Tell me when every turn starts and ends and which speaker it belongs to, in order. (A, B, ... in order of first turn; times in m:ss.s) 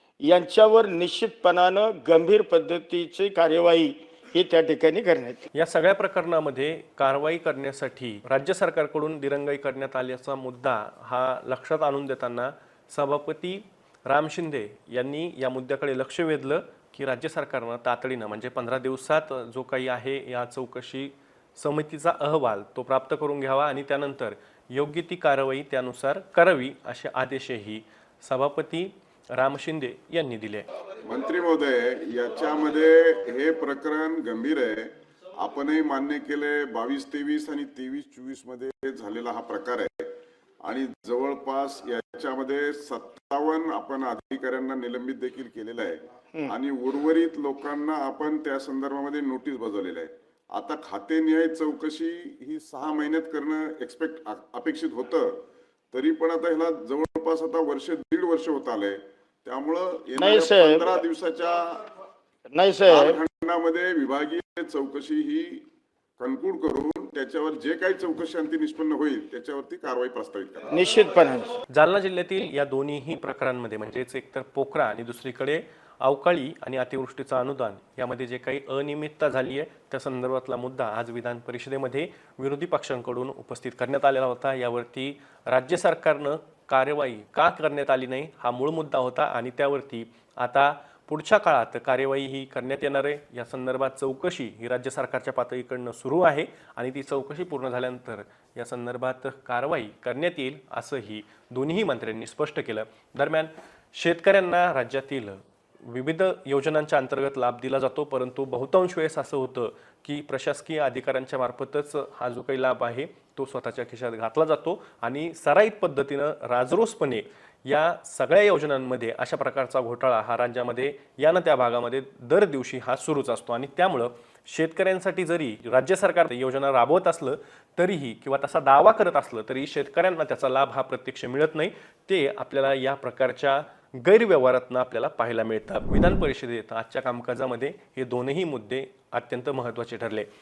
0:00.2-0:05.5 A
0:05.5-0:30.7 B
0:31.0-0:40.1 C
0:40.6-0:55.3 C
0:55.9-1:01.6 C
1:00.2-1:01.0 A
1:02.5-1:03.2 A
1:02.9-1:05.6 C
1:06.2-1:10.8 C
1:10.7-1:11.5 A
1:11.7-2:20.3 B